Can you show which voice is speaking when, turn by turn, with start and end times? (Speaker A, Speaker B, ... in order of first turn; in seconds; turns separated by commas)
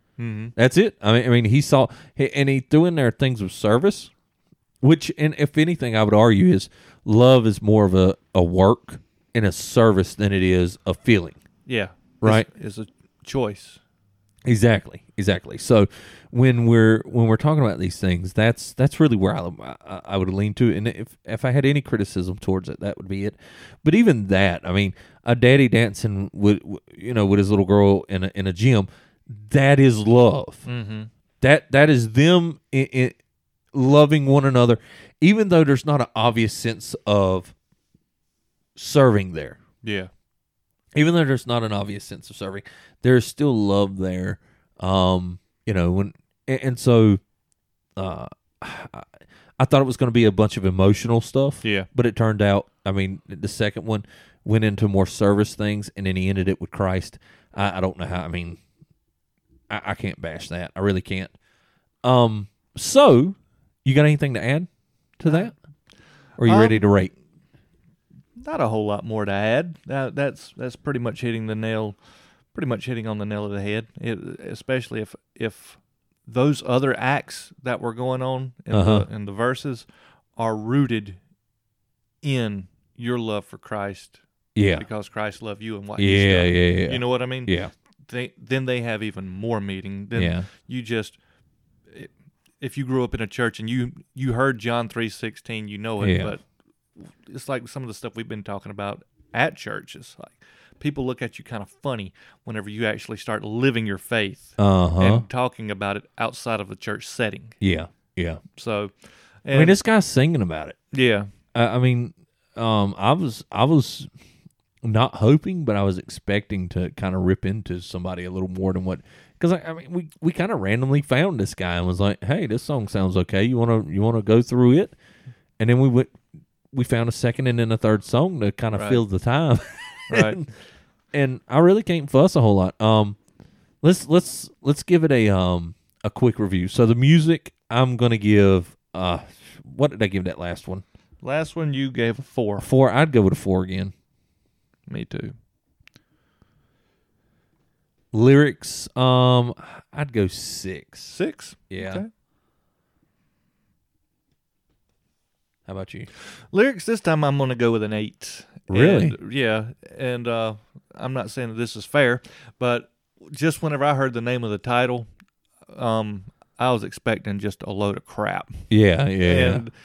Speaker A: 0.2-0.5, Speaker B: 0.6-4.1, Speaker B: 4.8-11.4, Speaker A: 11.7-13.8, Speaker B: 14.4-30.6, Speaker A: 30.7-31.1, Speaker B: 31.4-33.2, Speaker B: 33.7-37.5, Speaker B: 38.8-39.6, Speaker A: 39.8-40.1, Speaker B: 40.9-47.2, Speaker B: 48.0-58.6, Speaker A: 51.6-51.9, Speaker B: 59.7-61.3, Speaker B: 62.0-65.5, Speaker A: 65.3-65.5, Speaker B: 66.4-67.1, Speaker A: 66.4-66.9, Speaker A: 68.4-72.0, Speaker A: 72.5-79.9, Speaker B: 78.7-79.1, Speaker A: 80.4-81.2, Speaker A: 82.2-84.2, Speaker B: 84.5-84.9, Speaker A: 84.8-87.6, Speaker B: 86.0-87.7, Speaker A: 88.1-91.2, Speaker B: 90.2-90.5, Speaker A: 91.9-96.4, Speaker B: 96.0-96.4, Speaker A: 97.0-107.6, Speaker B: 104.6-105.3, Speaker B: 107.6-108.4, Speaker A: 108.5-108.9, Speaker A: 109.5-109.8, Speaker B: 109.5-110.8, Speaker A: 110.9-111.3, Speaker B: 111.5-114.1, Speaker B: 114.8-125.0, Speaker B: 125.6-126.1, Speaker B: 126.7-130.6, Speaker A: 128.7-129.0, Speaker A: 130.1-130.4, Speaker B: 131.1-133.2, Speaker B: 133.8-140.8, Speaker A: 141.2-142.7, Speaker B: 142.6-143.9, Speaker A: 144.9-145.3, Speaker B: 148.1-151.2, Speaker A: 151.1-152.1, Speaker B: 151.7-152.1, Speaker B: 155.7-156.1, Speaker A: 156.5-165.1, Speaker B: 158.7-159.2, Speaker A: 165.7-168.7, Speaker B: 168.7-169.7, Speaker A: 169.2-169.7